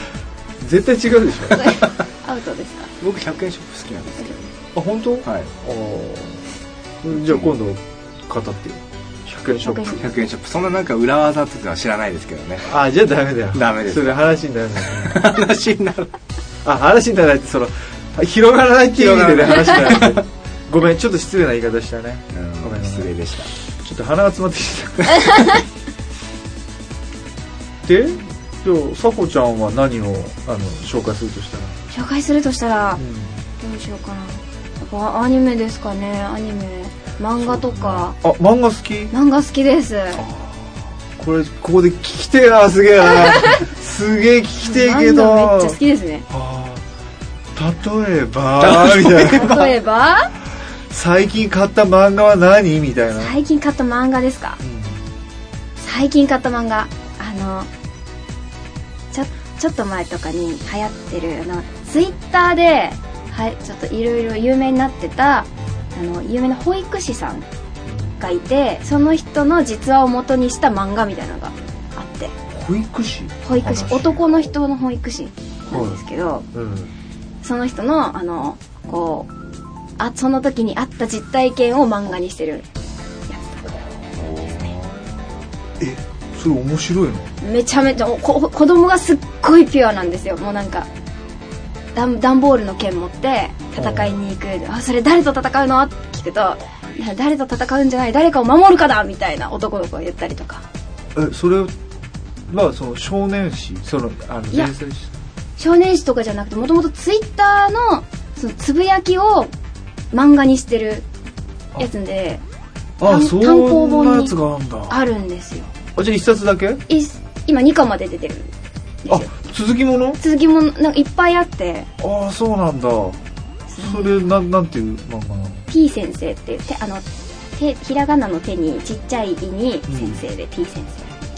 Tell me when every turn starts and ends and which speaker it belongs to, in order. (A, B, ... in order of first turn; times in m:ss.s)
0:00.6-0:01.8 A
0:01.5-0:02.9 B
0:03.0-0:04.5 C
0:04.7-0:06.4 A
0:07.0-0:10.1 A
0:07.1-0:07.5 C
0:09.6-0:10.0 B
0:10.0-0:12.7 C
0:12.7-0:15.2 A
0:13.5-0:14.3 C
0:14.9-0:16.1 C
0:16.6-0:23.1 A
0:18.9-0:20.2 C
0:22.3-0:23.5 C
0:23.6-0:25.5 A
0:25.2-0:25.6 B
0:27.8-0:31.8 A
0:31.9-0:33.0 B
0:33.0-0:33.4 A
0:33.6-0:38.1 B
0:37.4-0:39.1 A
0:39.1-0:40.2 B
0:40.2-0:40.6 A
0:41.2-0:45.8 A
0:44.6-0:46.2 B
0:46.3-0:46.8 A
0:47.5-0:49.6 A
0:48.6-0:49.7 C
0:49.1-0:50.3 B
0:50.9-0:53.3 A
0:53.2-0:54.6 B
0:54.6-0:55.0 A
0:55.8-0:57.7 B
0:59.1-1:07.4 B
1:07.8-1:08.1 A
1:08.2-1:12.3 B
1:12.5-1:14.2 A
1:13.4-1:16.4 B
1:15.7-1:16.0 A
1:16.5-1:16.9 A
1:17.4-1:19.3 B
1:20.0-1:22.7 B
1:23.3-1:23.7 B
1:24.1-1:25.1 C
1:25.8-1:27.3 A
1:27.4-1:30.9 B
1:31.9-1:40.6 B
1:33.8-1:34.1 A
1:41.1-1:41.7 A
1:42.5-1:45.1 A
1:45.6-1:49.5 B
1:50.1-1:51.0 B
1:51.8-1:52.4 B
1:53.0-1:55.0 A
1:53.0-1:54.3 B
1:54.9-1:55.7 B
1:56.0-1:56.8 A
1:56.9-1:58.5 B
1:59.0-1:59.3 B
1:59.1-2:00.2 A
2:00.2-2:01.9 B
2:02.0-2:03.2 A
2:03.7-2:04.3 B
2:03.8-2:05.6 A
2:05.7-2:07.0 B
2:07.6-2:11.1 B
2:09.9-2:10.2 A